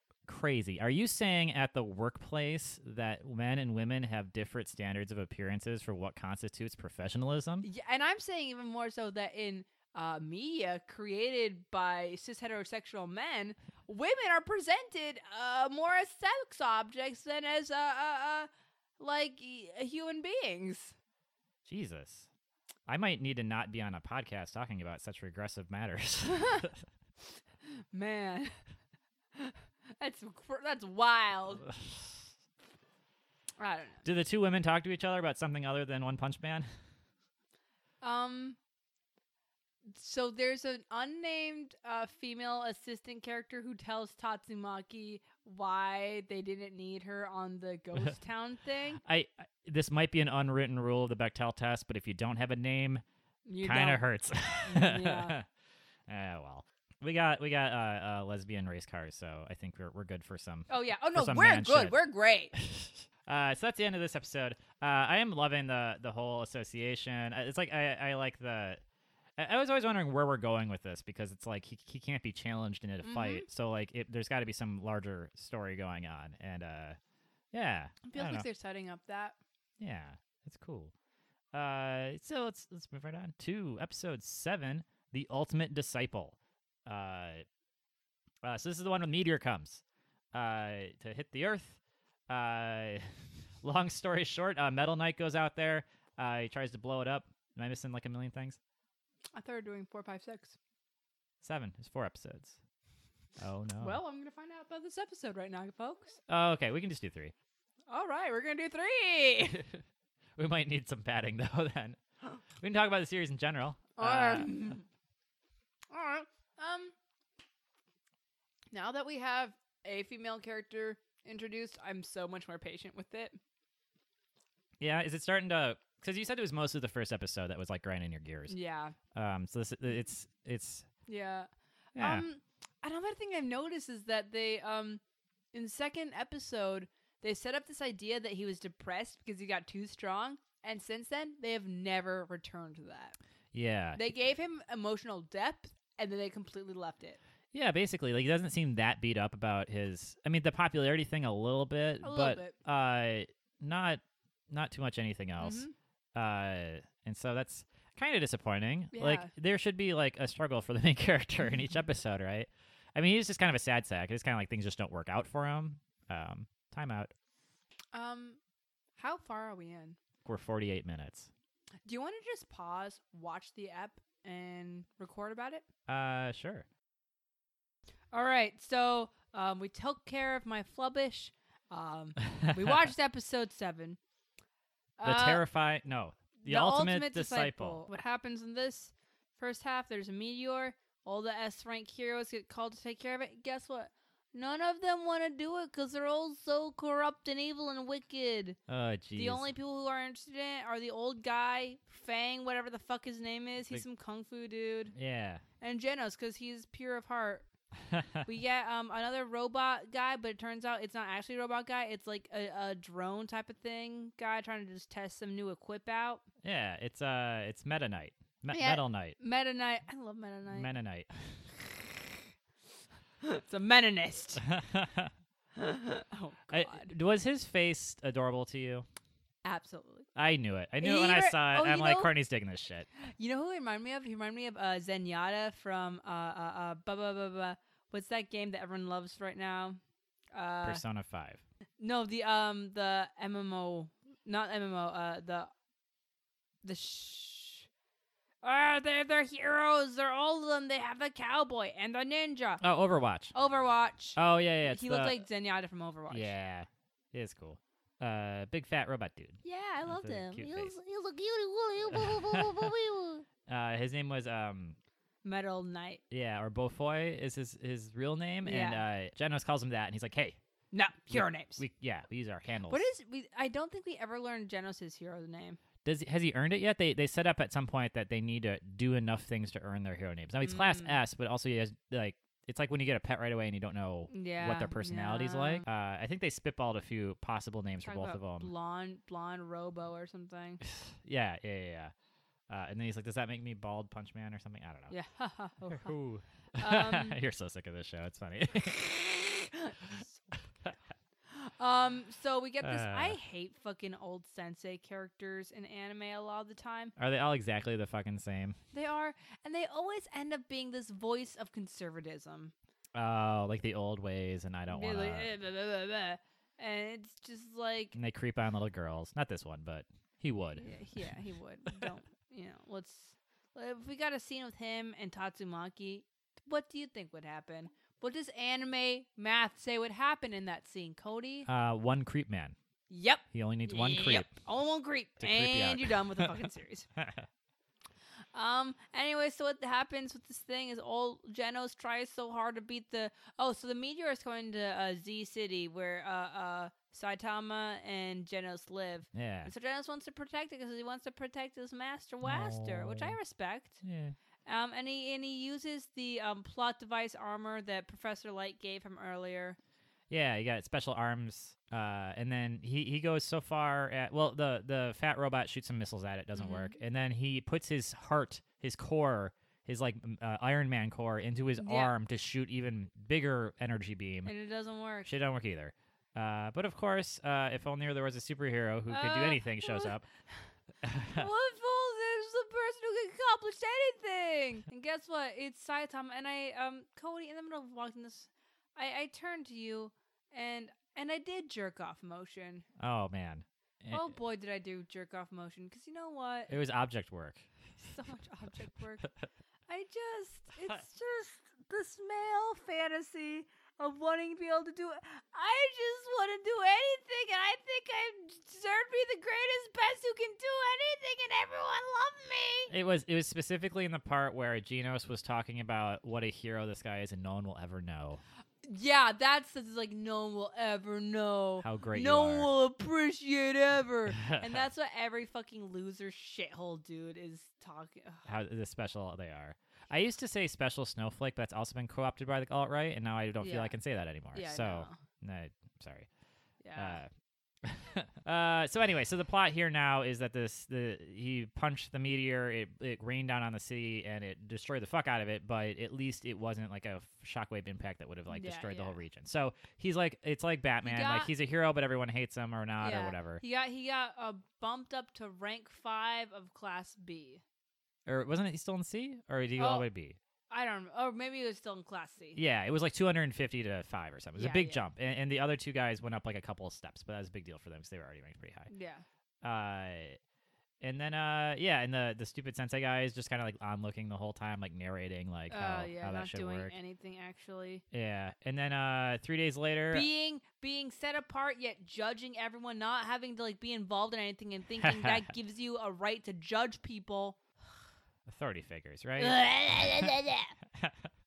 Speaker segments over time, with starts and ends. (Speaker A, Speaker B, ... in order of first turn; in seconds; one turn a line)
Speaker A: 0.3-7.7
Speaker B: 7.6-20.9
Speaker A: 21.6-22.3
Speaker A: 22.9-26.8
Speaker B: 26.2-26.7
Speaker B: 27.9-28.5
Speaker B: 29.3-31.7
Speaker A: 31.6-32.2
Speaker B: 33.6-34.0
Speaker A: 34.0-36.7
Speaker B: 38.0-38.6
Speaker B: 39.9-49.0
Speaker A: 49.0-53.0
Speaker B: 53.5-54.0
Speaker A: 53.6-55.5
Speaker B: 54.6-55.3
Speaker A: 56.1-62.0
Speaker B: 60.7-62.5
Speaker A: 62.5-68.8
Speaker A: 69.4-77.0
Speaker B: 73.0-73.5
Speaker A: 77.5-78.5
Speaker B: 78.0-79.3
Speaker A: 79.8-80.9
Speaker A: 81.5-87.4
Speaker A: 88.4-89.8
Speaker A: 90.3-93.0
Speaker A: 93.6-98.6
Speaker B: 99.3-100.6
Speaker A: 101.4-102.6
Speaker A: 103.4-104.0
Speaker B: 103.8-106.2
Speaker A: 106.3-107.3
Speaker B: 107.9-109.7
Speaker A: 110.3-112.0
Speaker A: 112.6-114.6
Speaker B: 114.0-114.8
Speaker B: 115.9-116.9
Speaker B: 118.7-123.4
Speaker A: 124.8-128.5
Speaker B: 128.5-128.9
Speaker A: 129.1-130.9
Speaker B: 131.1-135.0
Speaker A: 131.9-132.2
Speaker B: 135.5-143.2
Speaker A: 143.5-144.0
Speaker B: 143.9-147.2
Speaker A: 147.5-167.1
Speaker B: 152.0-152.5
Speaker B: 155.4-155.7
Speaker B: 158.9-159.3
Speaker B: 167.9-168.4
Speaker B: 169.0-170.0
Speaker A: 170.2-171.3
Speaker B: 171.8-175.6
Speaker A: 175.9-176.7
Speaker B: 178.1-184.0
Speaker B: 185.0-185.4
Speaker A: 185.0-187.8
Speaker B: 186.4-198.6
Speaker A: 198.7-199.5
Speaker B: 199.1-204.9
Speaker A: 204.9-205.4
Speaker B: 205.6-207.5
Speaker A: 207.9-208.2
Speaker B: 208.2-216.2
Speaker A: 216.4-219.2
Speaker B: 218.5-220.7
Speaker A: 220.5-221.3
Speaker B: 223.2-224.4
Speaker A: 224.3-225.1
Speaker B: 225.6-226.9
Speaker A: 226.5-228.8
Speaker B: 229.4-230.1
Speaker A: 230.1-232.9
Speaker B: 230.8-232.1
Speaker B: 233.0-239.8
Speaker B: 240.3-240.8
Speaker A: 240.6-241.4
Speaker B: 241.8-245.5
Speaker B: 246.6-247.7
Speaker B: 248.4-252.6
Speaker A: 252.6-253.3
Speaker B: 253.3-256.3
Speaker A: 254.2-255.2
Speaker A: 256.1-260.7
Speaker B: 259.4-263.2
Speaker A: 261.9-262.7
Speaker A: 263.5-264.8
Speaker B: 265.2-266.0
Speaker A: 266.1-270.4
Speaker B: 268.4-268.8
Speaker B: 270.7-271.6
Speaker A: 271.1-272.9
Speaker B: 272.7-275.6
Speaker A: 275.8-288.5
Speaker B: 280.4-281.0
Speaker B: 284.1-285.6
Speaker B: 287.8-290.6
Speaker A: 290.6-291.9
Speaker A: 292.5-294.9
Speaker B: 294.9-295.9
Speaker A: 295.7-298.8
Speaker B: 296.6-297.2
Speaker B: 298.7-300.4
Speaker B: 301.3-306.9
Speaker A: 302.6-303.2
Speaker A: 307.0-308.6
Speaker B: 308.7-312.5
Speaker A: 312.9-315.3
Speaker B: 314.7-317.9
Speaker A: 317.9-320.6
Speaker B: 320.6-331.5
Speaker A: 331.5-332.5
Speaker B: 332.9-336.9
Speaker A: 333.3-334.3
Speaker A: 335.2-336.4
Speaker A: 337.0-337.2
Speaker B: 338.3-353.8
Speaker A: 349.1-349.5
Speaker A: 352.2-353.1
Speaker A: 353.8-354.1
Speaker B: 354.4-359.6
Speaker A: 360.1-374.3
Speaker B: 366.3-366.7
Speaker B: 371.6-371.9
Speaker B: 374.2-375.1
Speaker A: 375.1-380.1
Speaker B: 378.9-379.9
Speaker A: 380.8-381.3
Speaker B: 381.1-392.6
Speaker A: 392.8-394.1
Speaker B: 393.9-396.6
Speaker A: 396.5-397.4
Speaker B: 397.8-399.1
Speaker B: 399.7-412.7
Speaker A: 412.7-418.2
Speaker B: 418.6-428.2
Speaker A: 421.6-422.5
Speaker A: 424.1-424.6
Speaker A: 428.2-436.1
Speaker B: 433.4-433.7
Speaker B: 434.3-435.0
Speaker B: 436.6-437.0
Speaker A: 436.8-437.1
Speaker A: 437.6-453.4
Speaker B: 448.3-449.0
Speaker B: 450.8-451.3
Speaker B: 452.8-457.4
Speaker A: 458.1-460.2
Speaker B: 459.6-459.9
Speaker B: 460.5-462.4
Speaker A: 462.3-468.7
Speaker B: 464.4-464.8
Speaker B: 468.7-469.0
Speaker A: 469.4-470.2
Speaker A: 470.8-476.7
Speaker B: 475.5-477.8
Speaker A: 477.9-480.1
Speaker B: 479.9-487.4
Speaker A: 484.8-485.2
Speaker A: 488.2-490.1
Speaker B: 489.2-490.5
Speaker A: 490.7-491.1